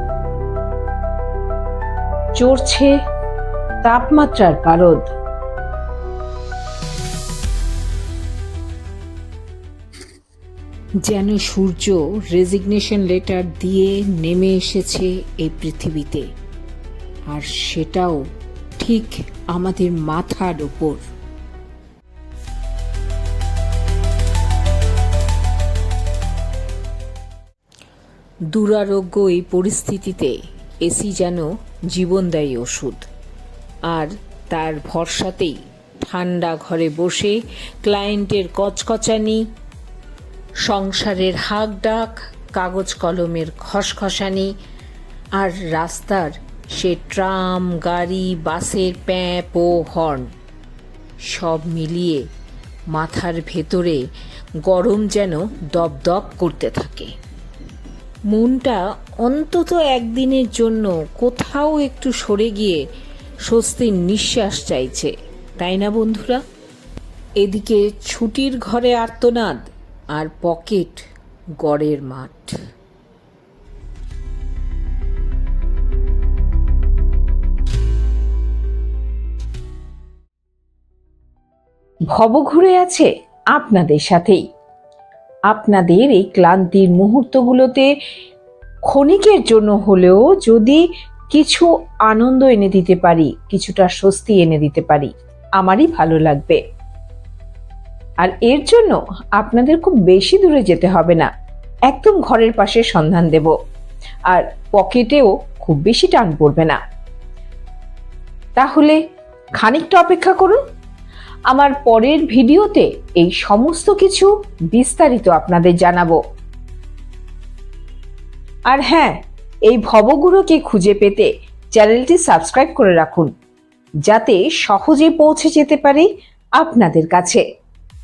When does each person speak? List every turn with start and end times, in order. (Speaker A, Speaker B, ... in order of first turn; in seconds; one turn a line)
Speaker A: 2.4-3.0
Speaker A: 3.8-5.1
Speaker A: 11.0-16.3
Speaker A: 17.3-18.2
Speaker A: 18.8-21.0
Speaker A: 28.5-33.1
Speaker A: 33.9-39.5
Speaker A: 40.6-44.5
Speaker A: 45.4-50.3
Speaker A: 51.3-52.2
Speaker A: 52.9-54.0
Speaker A: 54.6-57.1
Speaker A: 58.3-62.8
Speaker A: 63.5-66.4
Speaker A: 67.4-69.6
Speaker A: 70.1-71.0
Speaker A: 71.6-72.5
Speaker A: 82.1-84.4
Speaker A: 85.5-87.9
Speaker A: 88.9-96.6
Speaker A: 98.2-101.3
Speaker A: 101.9-103.5
Speaker A: 104.3-106.8
Speaker A: 108.6-109.0
Speaker A: 109.6-110.6
Speaker A: 111.5-116.2
Speaker A: 118.7-123.3
Speaker A: 124.1-127.4